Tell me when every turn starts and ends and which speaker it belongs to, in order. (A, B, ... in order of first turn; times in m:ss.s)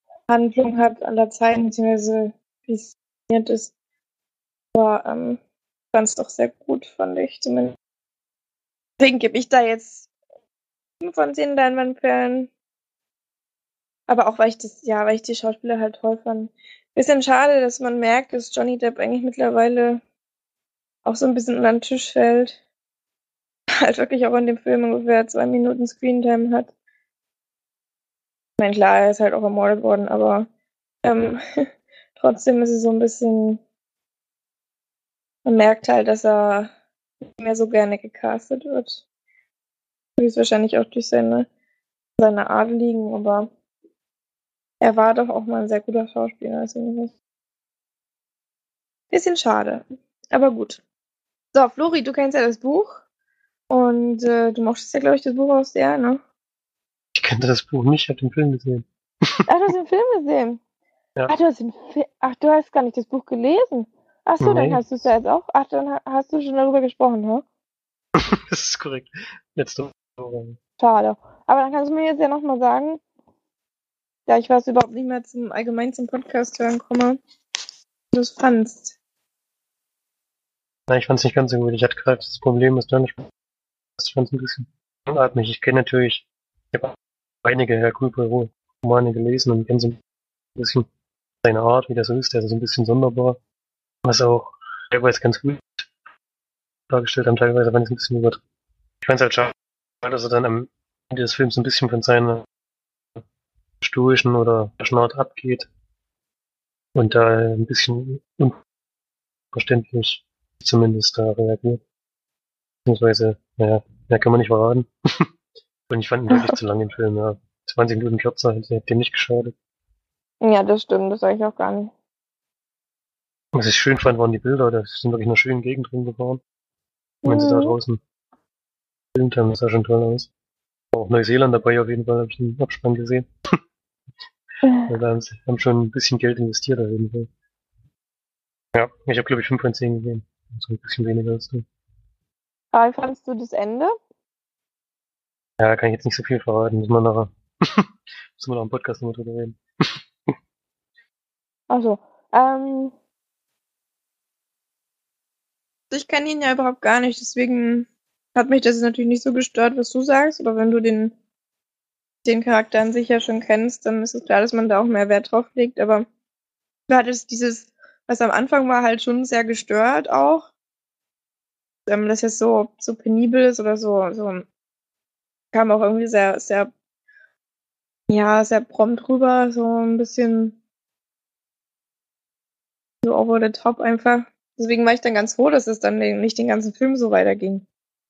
0:00.3-0:03.7 A
0:04.7-0:05.4 A
0:05.9-0:07.7 A
0:09.0-0:10.1 A
0:11.0-0:12.5 A
0:14.1-0:20.0 A
0:21.0-0:22.6 A
0:23.8-0:26.7 A
0:28.6-0:30.5 A
0:31.0-0:31.4 A
0:32.2-0:33.6 A
0:35.4-0:36.7 A
0:37.4-0:39.0 A
0:40.2-0:41.5 A
0:42.2-0:43.5 A
0:44.8-0:47.1 A
0:49.1-0:50.8 A
0:51.5-0:53.0 A
0:53.7-0:56.2 A
0:57.2-0:59.3 B
0:59.5-1:00.6 A
1:01.3-1:07.4 A
1:04.4-1:04.8 B
1:08.2-1:10.6 B
1:10.8-1:13.0 A
1:14.3-1:17.2 A
1:18.1-1:18.9 A
1:20.9-1:23.3 B
1:24.0-1:30.0 B
1:30.6-1:30.8 B
1:31.4-1:33.4 B
1:34.0-1:35.9 B
1:36.9-1:38.4 B
1:39.0-1:42.4 B
1:43.8-1:45.7 B
1:46.9-1:48.6 B
1:49.5-1:51.8 B
1:52.8-1:55.3 B
1:55.9-1:59.5 B
2:00.4-2:01.9 A
2:03.5-2:06.4 B
2:07.2-2:07.7 A
2:07.2-2:08.0 B
2:09.1-2:10.3 B
2:10.9-2:13.2 B
2:14.8-2:17.3 B
2:18.7-2:21.6 B
2:22.7-2:23.9 A
2:25.6-2:29.6 B
2:31.7-2:32.9 A
2:35.9-2:41.1 A
2:42.2-2:46.0 A
2:46.9-2:50.5 A
2:51.9-2:54.4 A
2:55.5-2:56.7 A
2:58.1-3:00.6 A
3:03.0-3:07.6 A